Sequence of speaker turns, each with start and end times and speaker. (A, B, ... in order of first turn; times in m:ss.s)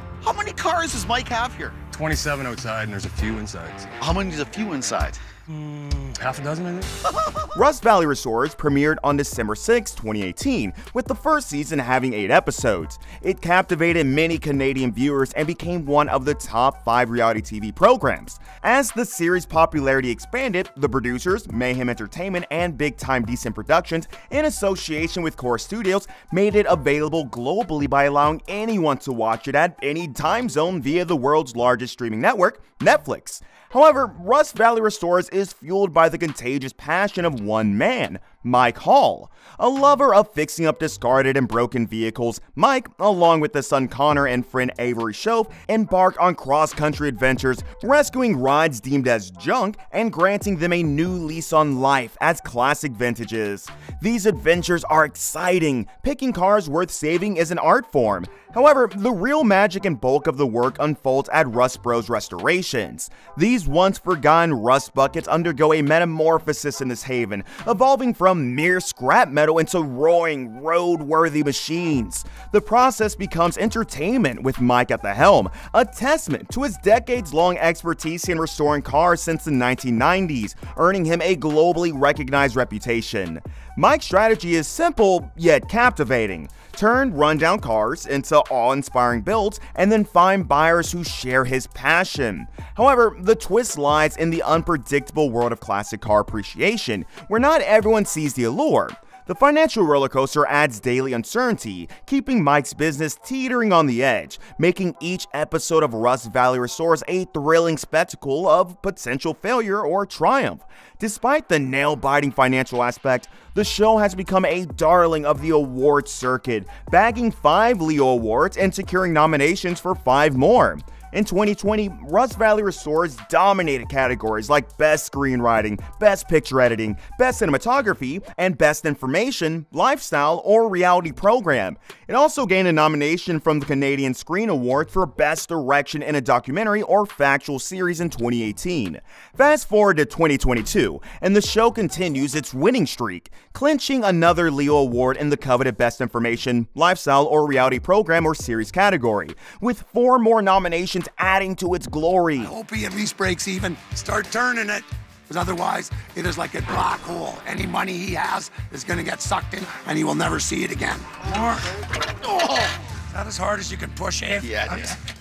0:00.2-0:01.8 A
0:01.9-0:03.9 B
0:04.0-0:05.2 A
0:05.5-0:06.9 B
0:07.0-0:07.5 A
0:07.6-2:32.5 C
2:32.4-2:45.0 D
2:44.4-2:44.9 A